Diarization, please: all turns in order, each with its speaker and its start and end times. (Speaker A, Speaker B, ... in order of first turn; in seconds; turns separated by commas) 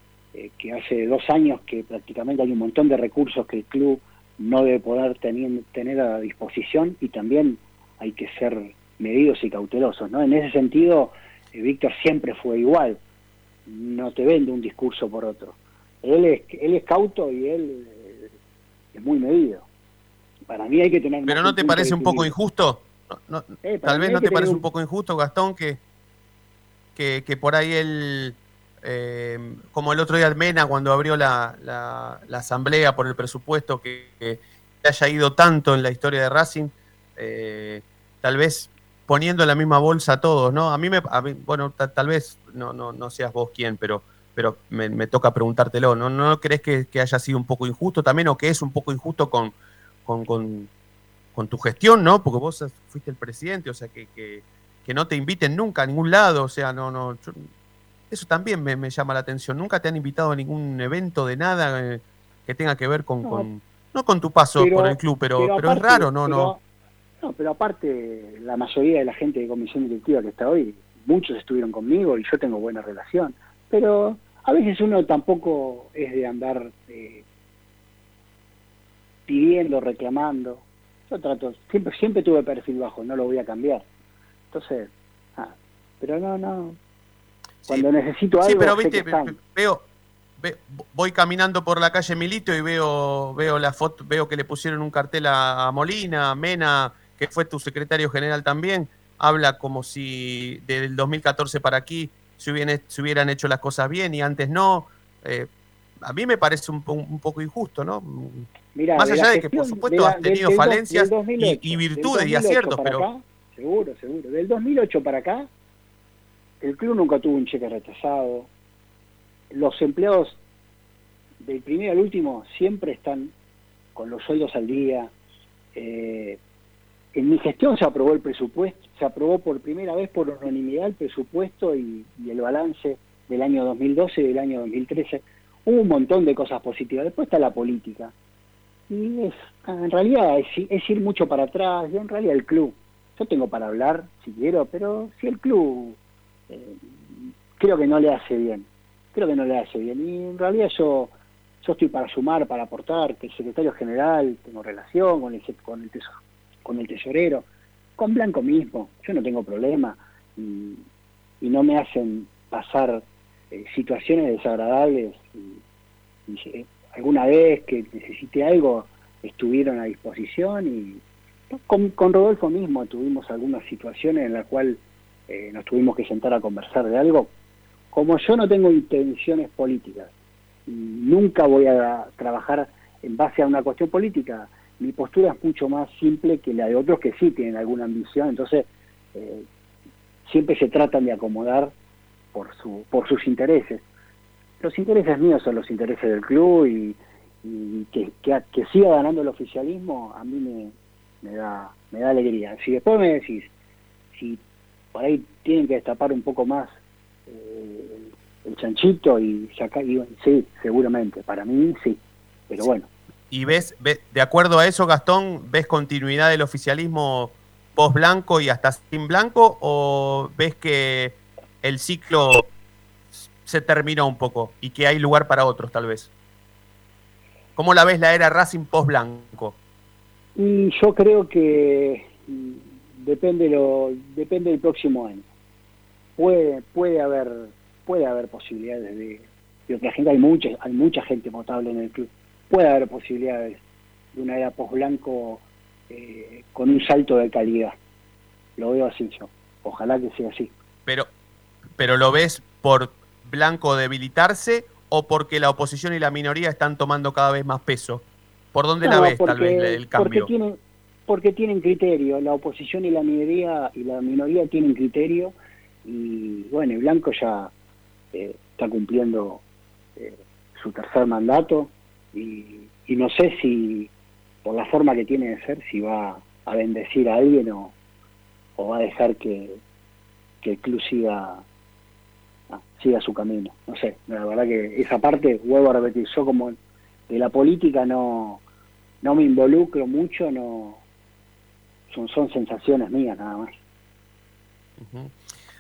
Speaker A: 0.3-13.0, Speaker A: 13.7-18.3, Speaker A: 18.9-19.7, Speaker A: 20.5-22.3, Speaker B: 21.3-25.8, Speaker A: 23.6-24.6, Speaker B: 27.0-49.5, Speaker B: 50.0-50.7, Speaker B: 51.3-57.5, Speaker B: 58.1-66.5, Speaker A: 64.6-66.6, Speaker A: 67.2-77.2, Speaker A: 79.3-83.8, Speaker A: 84.5-86.8, Speaker A: 87.7-89.4, Speaker B: 88.4-89.8, Speaker B: 90.4-105.5, Speaker B: 106.0-113.1, Speaker A: 108.8-115.5, Speaker A: 116.6-118.5, Speaker A: 119.5-120.4, Speaker A: 121.4-123.3, Speaker A: 124.0-125.1, Speaker A: 125.8-126.4, Speaker A: 127.2-138.1, Speaker A: 138.9-146.0, Speaker A: 146.5-157.5, Speaker A: 158.0-160.8, Speaker A: 161.4-165.6, Speaker A: 166.3-177.3, Speaker A: 177.9-180.1, Speaker A: 180.7-189.5, Speaker A: 190.2-191.7, Speaker A: 192.3-193.8, Speaker A: 194.6-203.5, Speaker A: 204.1-204.4, Speaker A: 204.9-206.7, Speaker A: 207.3-212.9, Speaker B: 213.3-222.5, Speaker B: 223.4-226.1, Speaker B: 227.6-229.6, Speaker A: 230.4-235.2, Speaker A: 236.2-243.6, Speaker A: 244.1-247.8, Speaker A: 248.6-250.5, Speaker B: 251.8-260.3, Speaker A: 258.8-267.5, Speaker A: 268.1-269.4, Speaker A: 270.0-273.9, Speaker A: 274.4-277.7, Speaker A: 278.6-279.6, Speaker A: 280.4-281.4, Speaker A: 282.5-286.6, Speaker A: 287.1-288.4, Speaker A: 289.0-290.8, Speaker A: 291.9-293.5, Speaker B: 294.8-295.2